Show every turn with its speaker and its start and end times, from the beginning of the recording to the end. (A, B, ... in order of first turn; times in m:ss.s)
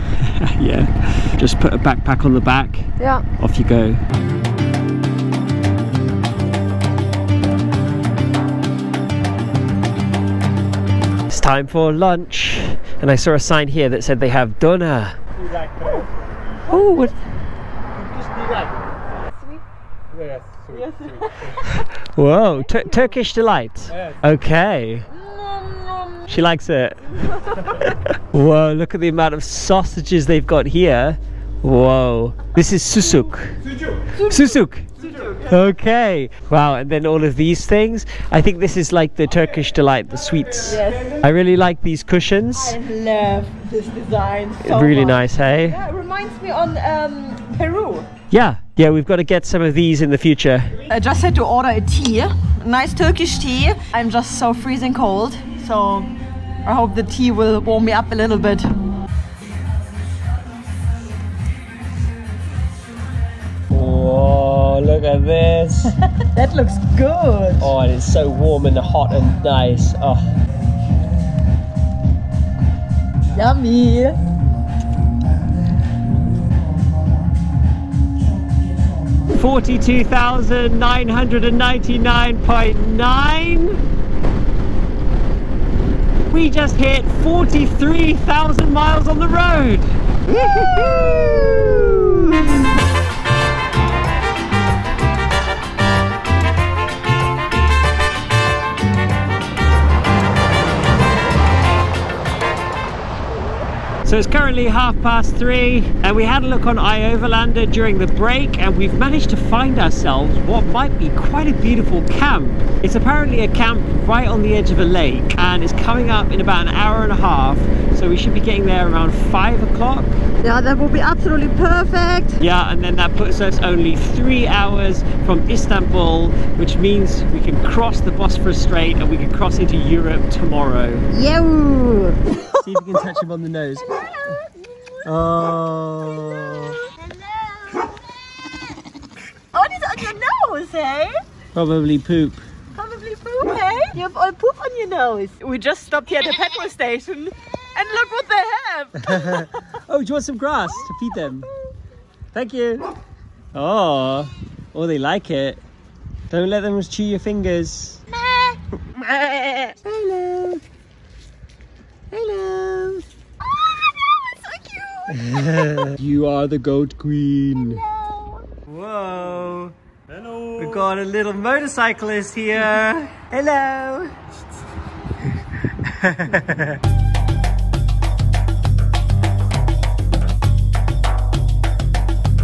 0:00.2-0:04.0 A
0:11.3-0:15.2 A
0:16.7-0:17.1 A
0:20.7-0:21.6 B
0:21.7-0:25.1 A
0:22.6-0:23.0 B
0:25.2-0:26.3 B
0:26.3-0:33.6 A
0:34.2-0:35.5 B
0:34.2-0:34.9 A
0:35.5-0:42.8 A
0:40.7-0:41.2 B
0:42.6-0:48.1 B
0:44.6-0:45.8 A
0:48.3-0:50.8 A
0:50.9-0:56.1 B
0:56.6-0:58.7 B
1:03.7-1:05.9 A
1:06.2-1:07.7 B
1:07.6-1:10.2 A
1:13.4-1:14.2 B
1:19.4-1:23.8 A
1:26.3-1:30.0 A
1:30.3-1:32.4 C
1:44.0-2:00.2 A
2:00.4-2:02.4 C
2:02.4-2:11.1 A
2:11.1-2:12.5 C
2:12.6-2:13.9 A
2:15.0-2:16.8 A
2:19.6-2:21.1 B
2:19.7-2:21.0 C
2:21.6-2:22.4 A
2:22.8-2:29.3 B
2:24.3-2:24.7 C
2:29.0-2:31.5 A
2:32.3-2:32.9 A
2:33.5-2:35.6 A
2:36.3-2:38.0 A
2:38.9-2:40.6 A
2:42.1-2:43.0 A
2:45.1-2:47.8 A
2:48.7-2:49.7 A
2:50.4-2:54.1 A
2:55.8-2:56.8 A